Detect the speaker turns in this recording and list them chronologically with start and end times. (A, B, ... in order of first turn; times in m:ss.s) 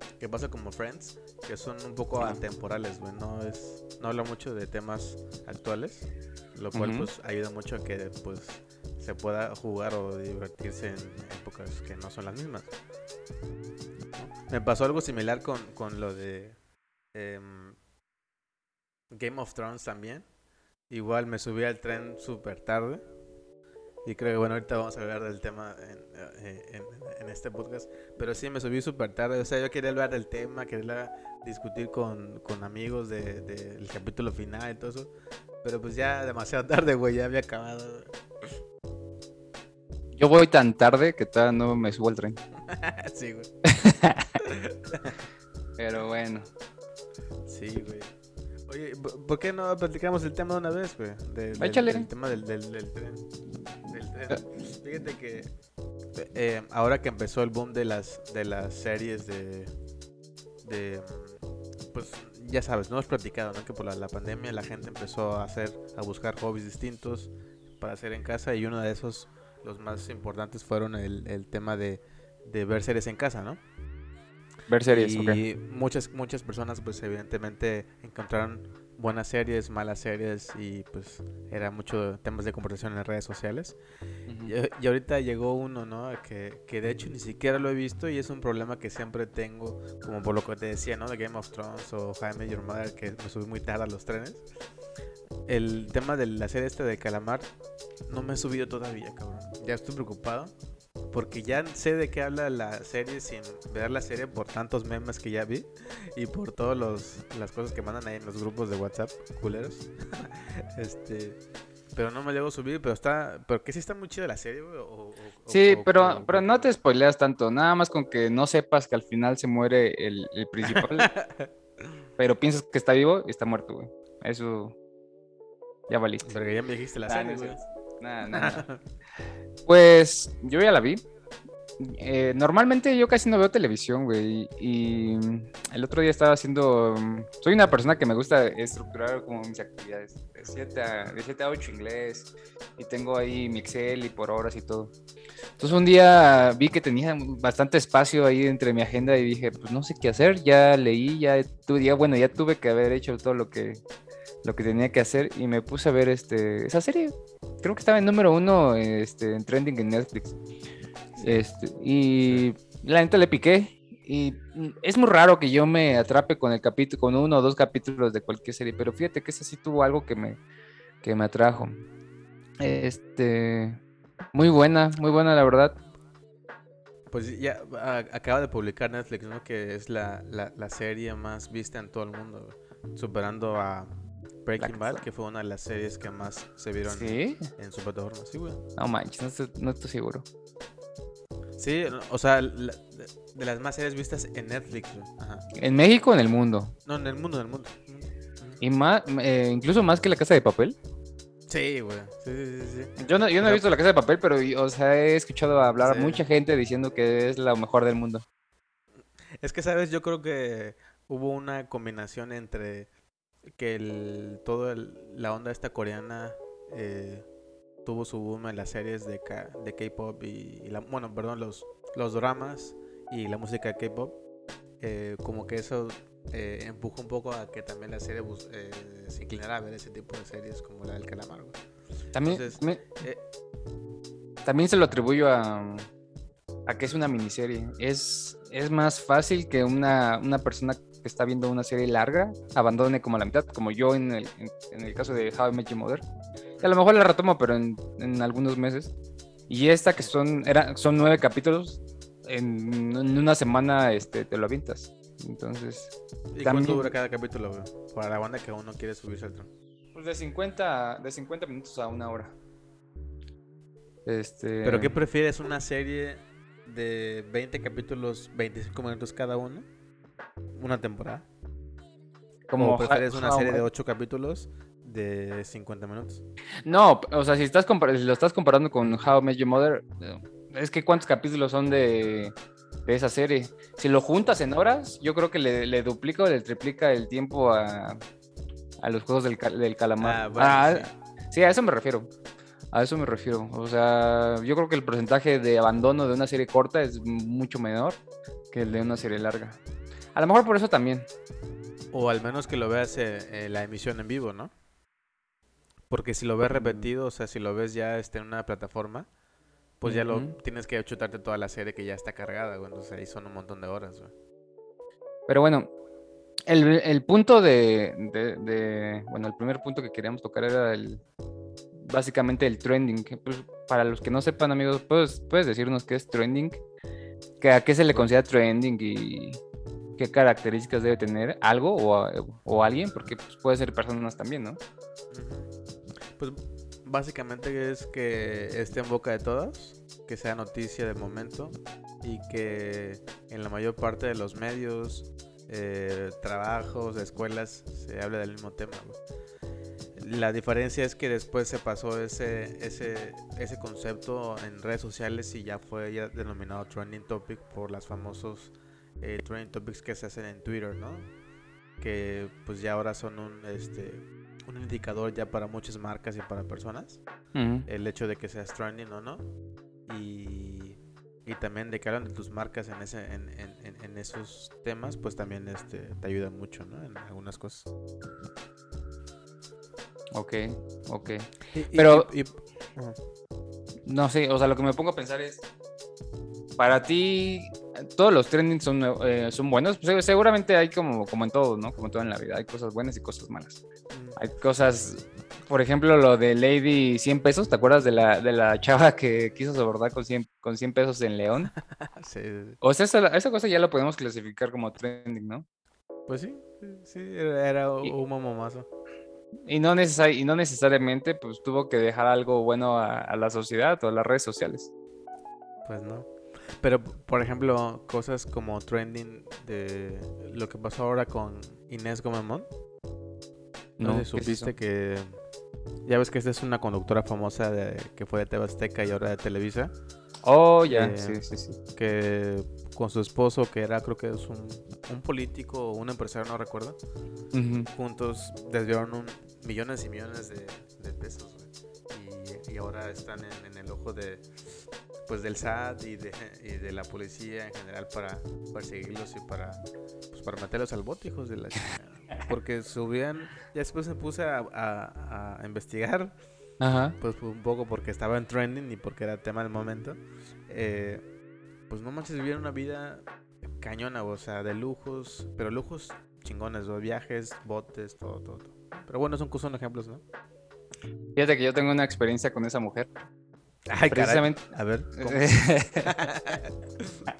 0:00.2-0:12.7 A
0:06.7-0:07.1 B
0:14.2-0:16.6 A
0:17.1-0:17.8 A
0:19.1-0:20.2 A
0:20.9-0:23.0 A
0:24.0-0:35.1 A
0:35.6-0:38.6 A
0:40.2-0:42.4 B
0:42.7-0:43.5 A
0:43.7-0:44.3 B
0:44.4-0:45.2 A
0:45.8-0:46.5 B
0:47.4-0:48.1 A
0:48.7-0:53.2 A
0:51.6-0:52.1 B
0:53.9-0:55.5 A
0:56.2-0:59.7 A
1:00.6-1:01.4 A
1:01.9-1:13.6 A
1:14.7-1:15.4 B
1:14.8-1:23.8 A
1:24.3-1:24.5 B
1:24.4-1:34.4 A
1:35.4-1:37.5 A
1:38.1-1:40.5 A
1:41.1-1:51.4 A
1:51.9-1:56.7 A
1:55.5-2:01.1 B
2:00.6-2:01.8 A
2:02.2-2:04.7 B
2:05.9-2:06.3 B
2:06.2-2:07.6 A
2:07.1-2:08.6 B
2:08.3-2:08.8 A
2:09.7-2:11.0 B
2:11.8-2:24.9 B
2:25.6-2:33.8 B
2:34.4-2:40.3 B
2:41.1-2:41.4 A
2:41.2-2:50.4 B
2:51.0-2:51.8 B
2:52.6-2:53.8 B
2:54.3-2:55.8 B
2:57.1-3:08.6 A
3:04.6-3:05.0 B
3:06.8-3:07.5 B
3:08.8-3:10.2 B
3:11.6-3:15.4 A
3:15.5-3:16.7 B
3:16.8-3:18.6 A
3:18.6-3:20.8 B
3:21.5-3:23.6 A
3:23.0-3:28.2 B
3:25.8-3:26.2 A
3:29.4-3:32.9 A
3:33.5-3:37.2 A
3:37.8-3:44.2 A
3:44.8-3:51.6 A
3:52.1-3:52.8 B
3:52.2-3:53.2 A
3:54.4-3:55.9 B
3:56.7-4:06.0 B
4:06.6-4:08.9 B
4:09.5-4:15.9 B
4:16.3-4:19.5 A
4:16.4-4:16.9 B
4:19.9-4:22.3 B
4:24.0-4:25.0 B
4:24.6-4:29.7 A
4:30.6-4:31.3 A
4:32.5-4:33.7 B
4:32.6-4:36.2 A
4:36.6-4:48.0 B
4:48.8-4:52.1 B
4:50.0-4:50.9 A
4:52.7-4:58.0 B
4:58.5-4:59.6 B
5:00.1-5:01.1 B
5:01.9-5:04.5 A
5:05.9-5:09.1 A
5:06.5-5:06.9 B
5:09.8-5:14.1 A
5:09.8-5:10.4 B
5:15.3-5:15.7 B
5:16.5-5:21.0 B
5:21.8-5:26.6 B
5:27.4-5:29.4 B
5:30.0-5:34.6 B
5:35.1-5:35.5 A
5:36.2-5:49.0 A
5:50.0-6:01.1 A
6:01.8-6:07.0 A
6:07.3-6:07.6 B
6:07.6-6:09.3 A
6:09.9-6:17.7 A
6:20.1-6:22.1 B
6:21.5-6:23.0 A
6:23.9-6:25.4 B
6:26.6-6:33.6 B
6:33.9-6:34.2 A
6:34.2-6:41.5 B
6:41.6-6:42.6 A
6:42.6-6:45.4 B
6:46.1-6:48.7 A
6:49.5-6:54.7 B
6:55.6-7:02.5 A
7:03.8-7:04.5 B
7:03.8-7:05.2 A
7:05.8-7:09.7 A
7:10.2-7:11.6 B
7:10.7-7:11.2 A
7:11.7-7:16.8 A
7:17.3-7:17.7 B
7:17.7-7:24.3 A
7:25.0-7:29.6 A
7:30.1-7:36.1 A
7:36.6-7:37.0 B
7:36.9-7:41.0 A
7:41.7-7:43.0 A
7:43.6-7:50.0 A
7:51.2-7:52.9 B
7:53.7-7:57.1 A
7:53.9-7:54.4 B
7:55.0-7:56.0 B